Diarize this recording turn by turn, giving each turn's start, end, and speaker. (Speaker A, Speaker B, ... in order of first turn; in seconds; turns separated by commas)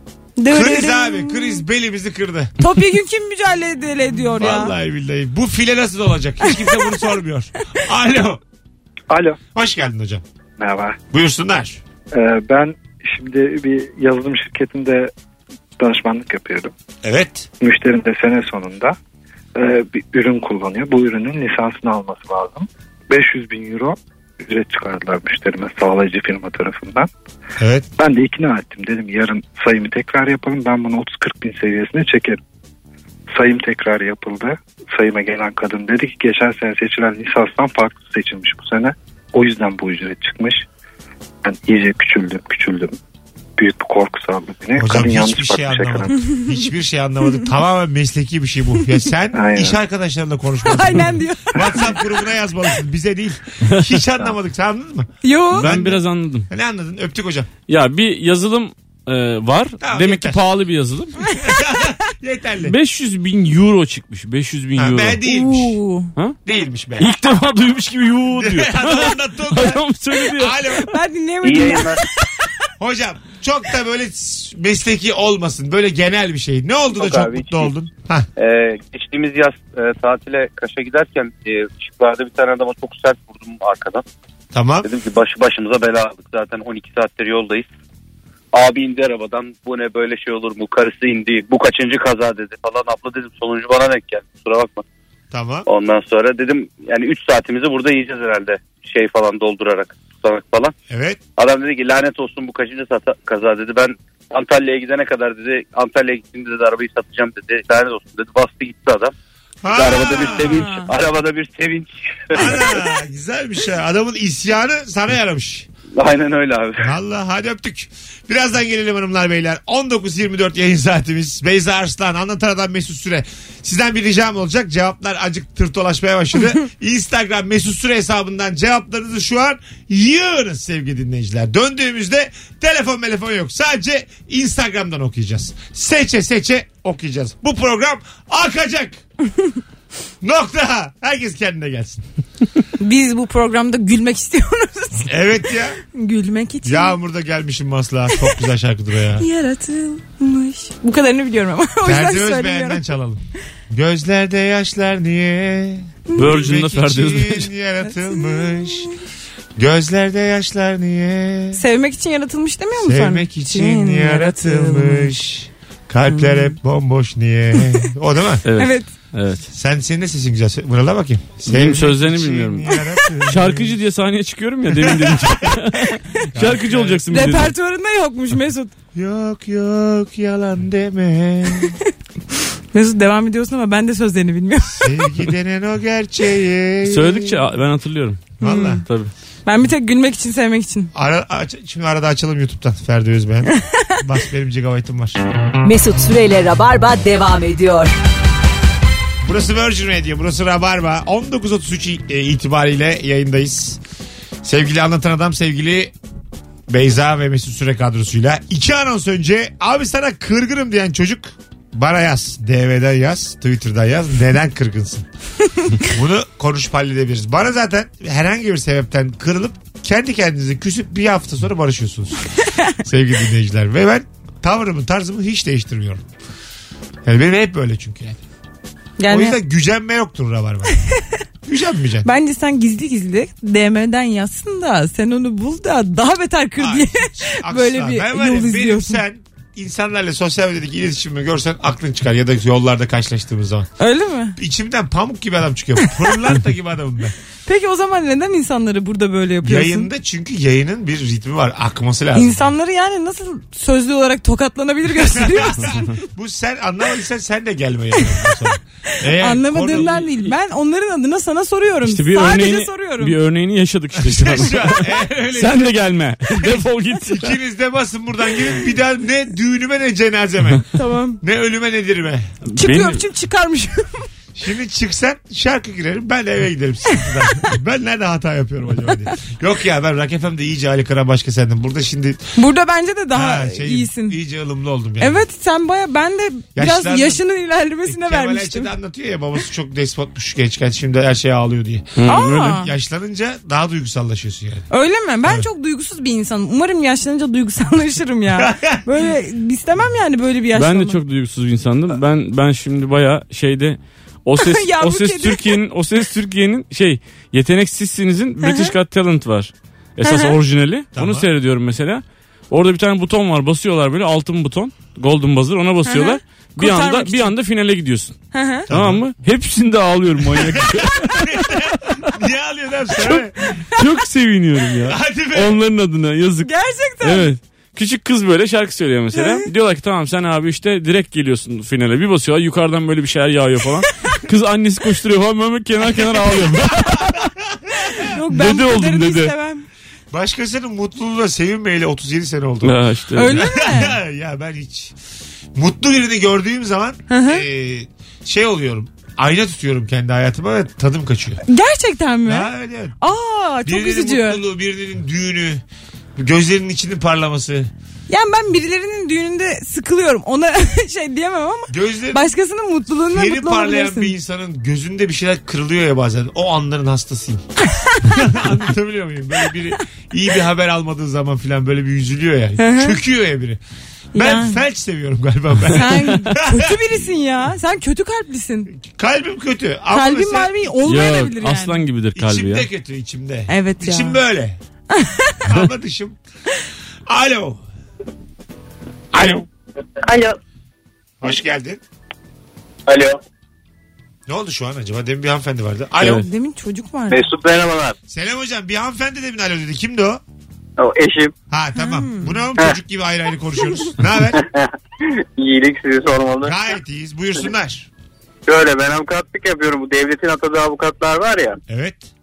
Speaker A: 0.4-1.6, Speaker B: 0.5-2.5, Speaker A: 2.6-4.7, Speaker B: 4.4-8.4, Speaker A: 6.4-6.9, Speaker C: 9.1-9.4, Speaker B: 9.5-10.2, Speaker C: 10.6-11.0, Speaker B: 11.1-11.8, Speaker C: 12.1-15.1, Speaker C: 15.8-16.7, Speaker B: 17.0-17.5, Speaker C: 17.6-18.9, Speaker C: 19.5-27.1, Speaker B: 27.6-27.9, Speaker C: 28.0-32.4, Speaker C: 33.3-40.6, Speaker C: 41.4-43.0, Speaker C: 43.6-46.3, Speaker B: 44.8-57.5, Speaker A: 46.1-46.4, Speaker C: 49.3-49.8, Speaker A: 50.6-52.1, Speaker D: 53.7-54.0, Speaker A: 55.2-55.7, Speaker D: 55.5-56.5, Speaker D: 57.7-61.3, Speaker B: 59.8-60.4, Speaker B: 61.3-62.8, Speaker D: 62.6-65.2, Speaker B: 64.8-65.8, Speaker A: 65.2-66.1, Speaker B: 66.4-67.1, Speaker D: 67.0-70.8, Speaker B: 68.3-70.9, Speaker A: 70.7-72.2, Speaker E: 71.4-72.0, Speaker B: 72.8-78.3, Speaker E: 76.9-77.7, Speaker E: 78.4-84.0, Speaker B: 84.5-84.9, Speaker E: 84.8-87.7, Speaker E: 88.5-94.8, Speaker B: 95.3-95.7, Speaker E: 95.7-100.7, Speaker B: 100.9-101.2, Speaker E: 101.4-109.1, Speaker B: 109.6-110.7, Speaker E: 109.7-112.6, Speaker A: 110.2-110.9, Speaker B: 112.3-115.7, Speaker E: 116.0-116.9, Speaker B: 116.8-139.0, Speaker B: 140.2-142.1, Speaker A: 142.8-145.1, Speaker B: 145.0-145.8, Speaker A: 145.8-146.9, Speaker B: 146.6-149.2, Speaker A: 149.2-152.8, Speaker B: 151.8-158.9, Speaker D: 156.2-157.5, Speaker A: 158.3-158.8, Speaker B: 159.6-161.6, Speaker A: 161.5-165.1, Speaker B: 162.8-168.4, Speaker A: 166.1-166.5, Speaker D: 168.4-169.5, Speaker A: 168.6-168.9, Speaker B: 169.5-173.8, Speaker D: 171.5-172.7, Speaker D: 173.2-177.5, Speaker B: 174.7-175.6, Speaker B: 176.3-177.3, Speaker A: 177.1-178.7, Speaker B: 178.9-181.8, Speaker A: 181.6-181.8, Speaker A: 182.7-185.2, Speaker B: 184.6-187.4, Speaker D: 186.8-189.1, Speaker B: 188.4-188.8, Speaker A: 188.4-188.8, Speaker A: 189.4-190.9, Speaker B: 190.9-195.2, Speaker A: 193.5-194.0, Speaker F: 195.6-197.9, Speaker B: 199.2-203.8, Speaker B: 204.4-205.9, Speaker B: 206.7-215.1, Speaker B: 215.8-222.3, Speaker B: 222.8-226.1, Speaker B: 227.0-228.2, Speaker A: 229.0-229.4, Speaker B: 229.1-230.8, Speaker B: 231.4-232.1, Speaker A: 232.0-239.0, Speaker B: 236.6-243.7, Speaker A: 243.8-244.4, Speaker B: 244.4-247.1, Speaker A: 245.8-246.2, Speaker A: 247.4-249.9, Speaker B: 249.4-252.5, Speaker A: 252.1-255.9, Speaker B: 254.9-260.0, Speaker A: 259.0-263.1, Speaker D: 259.7-260.0, Speaker D: 261.8-267.3, Speaker B: 264.0-272.3, Speaker A: 270.7-271.2, Speaker D: 272.5-273.0, Speaker A: 272.5-274.0, Speaker B: 274.3-282.3, Speaker A: 276.9-277.5, Speaker A: 282.4-284.2, Speaker B: 283.1-285.2, Speaker A: 285.0-288.7, Speaker B: 286.6-287.2, Speaker B: 287.8-294.6, Speaker D: 292.0-292.4, Speaker A: 292.1-292.7, Speaker A: 294.7-301.0, Speaker B: 298.4-298.8, Speaker D: 300.5-321.5, Speaker A: 304.4-305.6, Speaker A: 308.4-308.7, Speaker A: 310.0-310.3, Speaker B: 310.9-311.3, Speaker A: 315.9-317.3, Speaker A: 318.3-318.7, Speaker B: 318.7-319.0, Speaker B: 320.3-323.4, Speaker D: 322.9-326.5, Speaker B: 324.9-325.6, Speaker A: 326.4-327.3, Speaker D: 327.0-337.0, Speaker A: 329.1-329.4, Speaker B: 336.9-337.8, Speaker A: 337.7-339.6, Speaker D: 338.3-339.3, Speaker B: 340.1-344.9, Speaker D: 342.6-343.4, Speaker A: 343.1-343.9, Speaker B: 345.5-351.4, Speaker A: 347.1-347.4, Speaker A: 351.4-354.4, Speaker B: 352.2-352.9, Speaker B: 353.6-355.6, Speaker B: 356.1-357.7, Speaker A: 358.1-364.1, Speaker B: 361.7-362.3, Speaker B: 363.1-367.4, Speaker A: 367.7-368.3, Speaker B: 368.0-373.6, Speaker A: 372.6-373.0, Speaker A: 374.1-374.6, Speaker B: 374.1-376.8, Speaker A: 375.7-378.7, Speaker B: 378.7-380.6, Speaker A: 379.9-381.8, Speaker D: 380.8-382.6, Speaker B: 382.1-384.6, Speaker A: 383.5-384.2, Speaker A: 384.9-385.4, Speaker B: 385.4-386.2, Speaker B: 387.1-387.6, Speaker B: 389.1-389.4, Speaker G: 390.0-390.4, Speaker B: 391.2-391.8, Speaker G: 392.9-393.2, Speaker B: 394.3-396.3, Speaker A: 396.1-397.2, Speaker G: 397.1-397.9, Speaker B: 398.1-400.2, Speaker G: 400.8-401.3, Speaker B: 401.5-404.4, Speaker A: 401.8-402.4, Speaker G: 404.3-404.7, Speaker G: 405.4-406.5, Speaker B: 406.4-407.9, Speaker G: 408.5-411.6, Speaker B: 411.7-412.1